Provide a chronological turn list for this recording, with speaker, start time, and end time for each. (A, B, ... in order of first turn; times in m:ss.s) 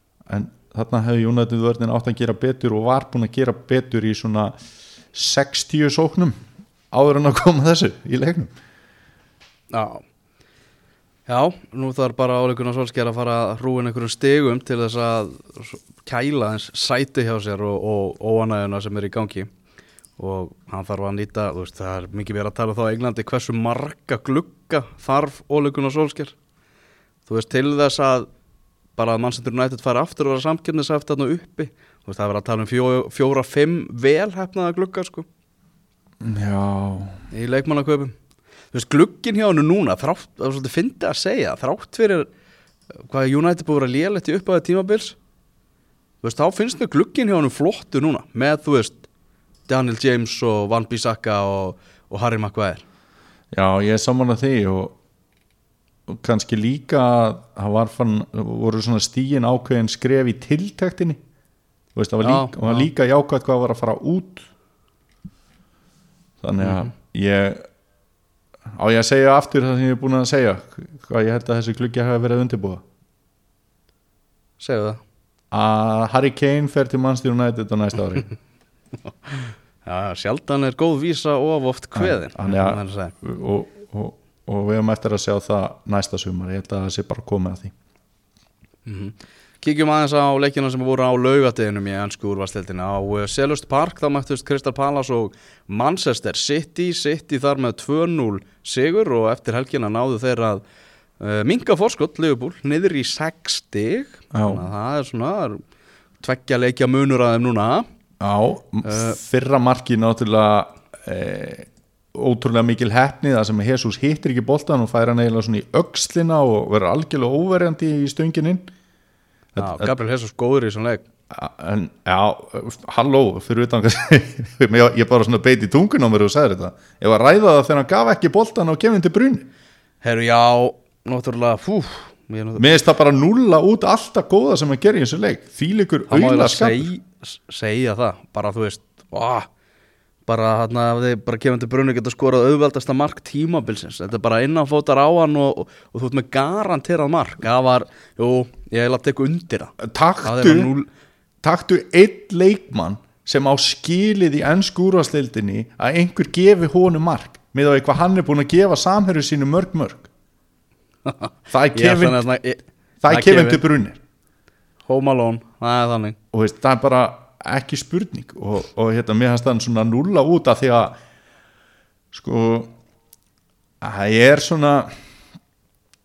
0:00.3-0:04.6 A
0:05.1-0:06.4 A
0:06.9-0:08.5 A
0:09.7-0:10.0 B
0:11.3-0:19.5 B
0:20.2-0:26.4 B
0:27.3-0:28.3 B
0:29.0-0:35.3 B
0:36.2-0:37.2 A
0:37.3-0:38.2 B
0:38.7-0:42.3 B
0:43.0-0:45.2 B
0:46.2-0:49.1 B
0:49.7-0:52.8 B
0:53.5-0:55.0 A
0:56.1-1:01.2 A
1:02.0-1:04.5 A
1:02.2-1:02.9 B
1:06.4-1:07.6 A
1:06.6-1:06.9 B
1:08.7-1:12.8 A
1:14.6-1:15.0 B
1:15.5-1:18.3 A
1:19.3-1:23.1 B
1:22.0-1:27.7 A
1:28.9-1:40.6 B
1:41.2-1:45.6 B
1:44.3-1:44.6 A
1:46.2-1:47.9 B
1:48.2-1:58.7 A
1:48.8-1:49.2 B
1:59.6-1:59.9 A
1:59.6-2:01.0 B
2:01.3-2:09.5 A
2:10.0-2:12.7 B
2:12.6-2:16.9 A
2:16.1-2:19.5 B
2:20.3-2:30.9 B
2:29.8-2:30.7 A
2:31.4-2:40.1 A
2:41.1-2:43.6 B
2:41.5-2:42.2 A
2:43.0-2:44.0 A
2:44.9-2:46.2 B
2:46.3-2:51.0 A
2:52.1-2:52.7 A
2:53.8-2:54.9 A